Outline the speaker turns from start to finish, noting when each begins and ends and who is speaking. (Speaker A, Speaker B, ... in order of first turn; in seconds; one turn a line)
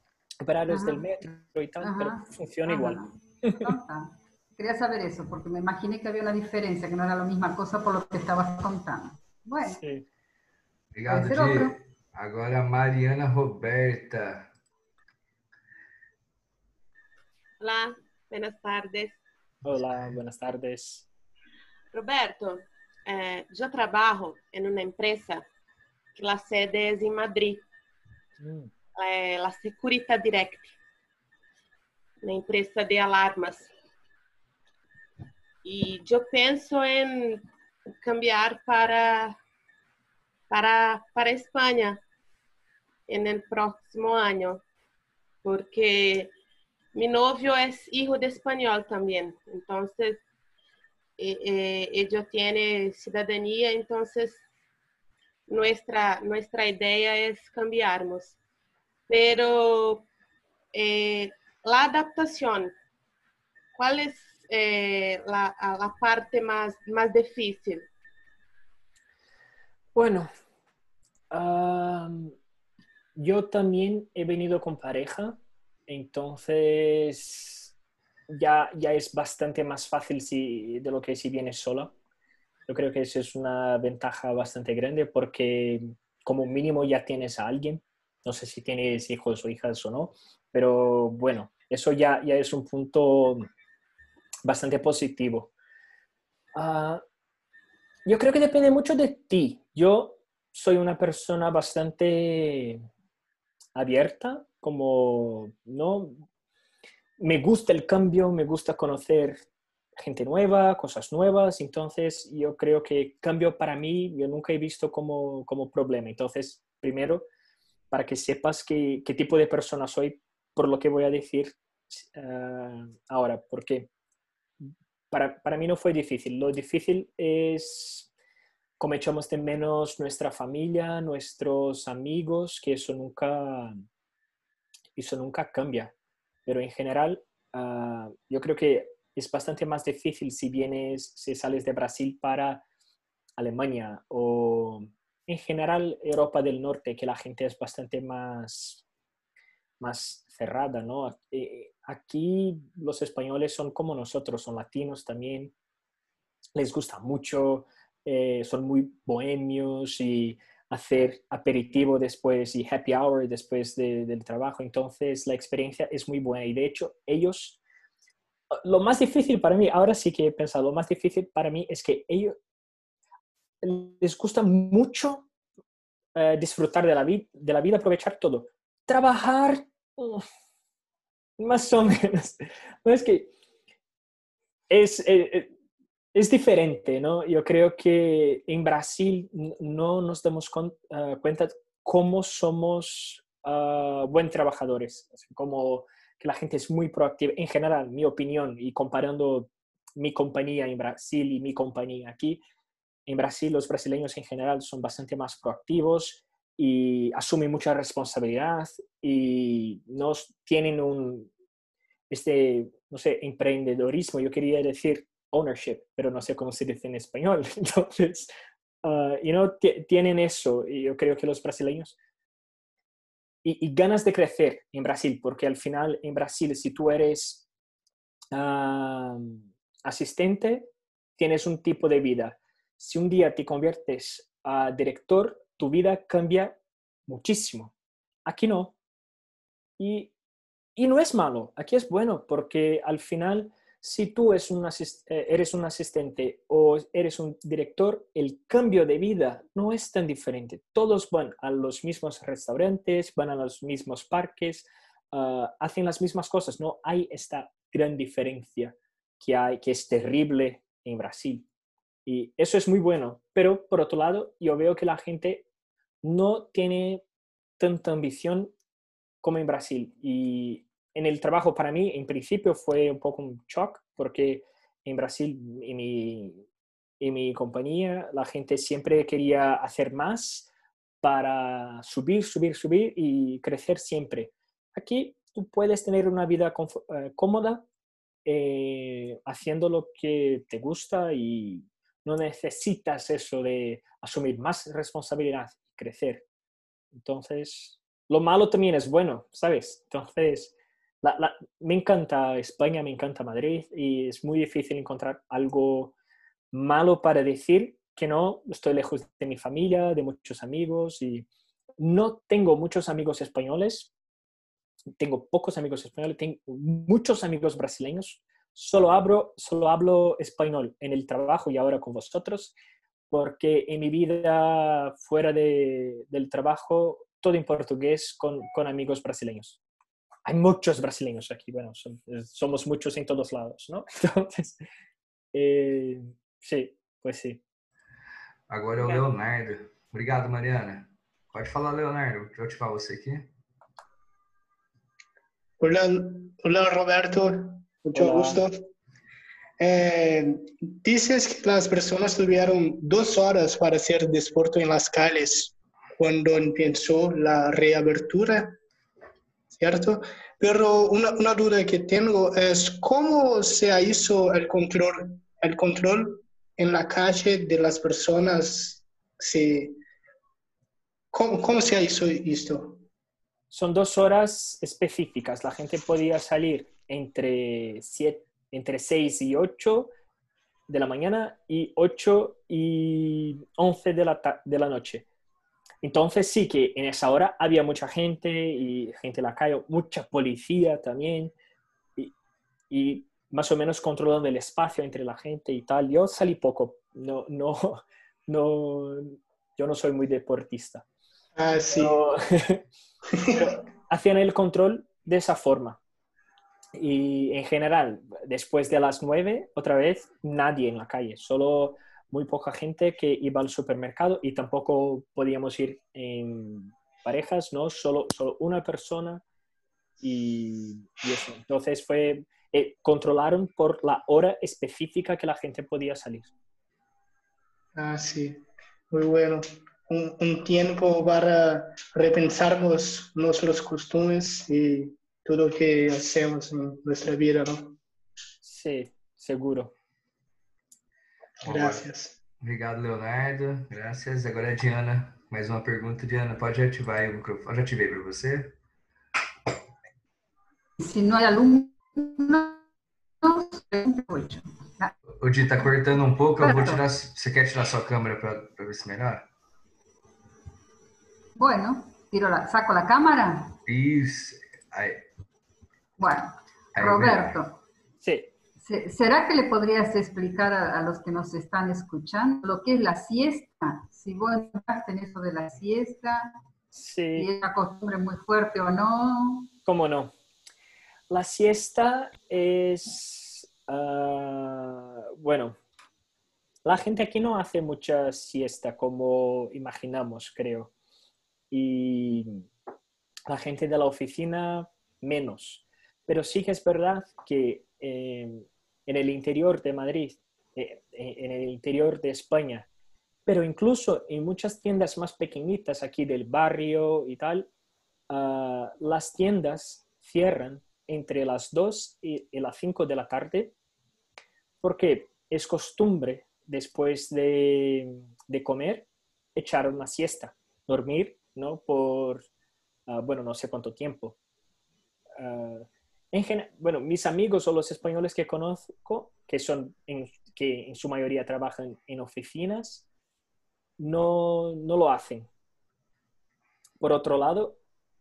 Speaker A: 0.4-3.8
Speaker B: 0.7-1.2
Speaker B: 1.8-9.8
Speaker A: 9.7-10.1
Speaker C: 10.9-14.5
Speaker B: 11.1-11.7
Speaker D: 17.6-19.2
Speaker A: 19.6-21.1
Speaker D: 21.9-25.4
Speaker D: 26.1-27.7
Speaker A: 28.4-28.7
Speaker D: 29.0-30.8
Speaker D: 32.2-33.7
Speaker D: 35.6-37.5
Speaker D: 38.0-39.4
Speaker D: 40.5-42.0
Speaker D: 43.1-44.6
Speaker D: 45.4-46.3
Speaker D: 46.9-50.2
Speaker D: 51.2-54.4
Speaker D: 55.5-58.4
Speaker D: 59.1-60.1
Speaker D: 60.7-62.7
Speaker D: 63.8-67.9
Speaker A: 70.0-70.3
Speaker A: 71.3-72.3
Speaker A: 73.2-77.7
Speaker A: 78.3-81.9
Speaker A: 82.7-93.5
Speaker A: 94.4-95.5
Speaker A: 96.5-97.0
Speaker A: 98.1-102.8
Speaker A: 103.8-106.2
Speaker A: 107.2-117.3
Speaker A: 117.9-123.9
Speaker A: 124.6-128.1
Speaker A: 128.8-133.8
Speaker A: 135.0-135.9
Speaker A: 136.5-142.6
Speaker A: 143.4-148.8
Speaker A: 149.8-155.5
Speaker A: 156.6-167.6
Speaker A: 168.5-172.4
Speaker A: 173.6-175.3
Speaker A: 176.2-180.2
Speaker A: 181.4-183.3
Speaker A: 184.7-185.5
Speaker A: 186.1-202.4
Speaker A: 203.1-211.3
Speaker A: 212.1-218.3
Speaker A: 218.8-222.0
Speaker A: 223.4-227.4
Speaker A: 228.3-237.7
Speaker A: 238.3-238.8
Speaker A: 239.8-240.1
Speaker A: 240.8-261.5
Speaker A: 262.1-265.5
Speaker A: 266.0-267.0
Speaker A: 267.6-268.5
Speaker A: 269.2-276.4
Speaker A: 277.0-280.5
Speaker A: 281.0-287.7
Speaker A: 288.2-296.2
Speaker A: 296.9-305.9
Speaker A: 306.5-311.3
Speaker A: 311.8-313.9
Speaker A: 315.0-322.6
Speaker A: 323.1-329.6
Speaker A: 330.3-334.6
Speaker A: 335.3-337.4
Speaker C: 338.5-343.3
Speaker E: 345.6-348.7
Speaker A: 347.9-348.4
Speaker E: 349.6-358.6
Speaker E: 359.6-369.8
Speaker E: 371.1-372.8
Speaker A: 373.5-379.9
Speaker A: 380.7-385.1
Speaker A: 385.8-391.3
Speaker A: 392.7-400.9
Speaker E: 401.4-402.0
Speaker A: 401.7-402.6
Speaker E: 403.2-403.4
Speaker A: 403.3-405.8
Speaker A: 406.8-419.2
Speaker A: 420.0-426.3
Speaker E: 427.8-437.8
Speaker A: 438.4-439.7
Speaker C: 441.4-441.9
Speaker E: 441.4-442.1
Speaker C: 442.4-448.6
Speaker B: 450.8-452.6
Speaker B: 453.2-454.9
Speaker C: 455.2-459.3
Speaker B: 456.4-456.8
Speaker B: 461.4-463.6
Speaker C: 463.7-465.0
Speaker B: 466.0-467.6
Speaker C: 466.8-467.4
Speaker A: 468.0-468.3
Speaker B: 468.6-476.3
Speaker A: 476.7-477.3
Speaker B: 477.1-479.5
Speaker A: 479.7-480.1
Speaker A: 481.1-485.6
Speaker A: 486.6-490.7
Speaker A: 491.5-492.5
Speaker A: 493.3-502.7
Speaker A: 503.3-507.5
Speaker A: 508.1-513.5
Speaker A: 514.6-522.3
Speaker A: 522.9-524.2
Speaker A: 525.2-532.9
Speaker A: 533.8-535.3
Speaker A: 536.8-537.6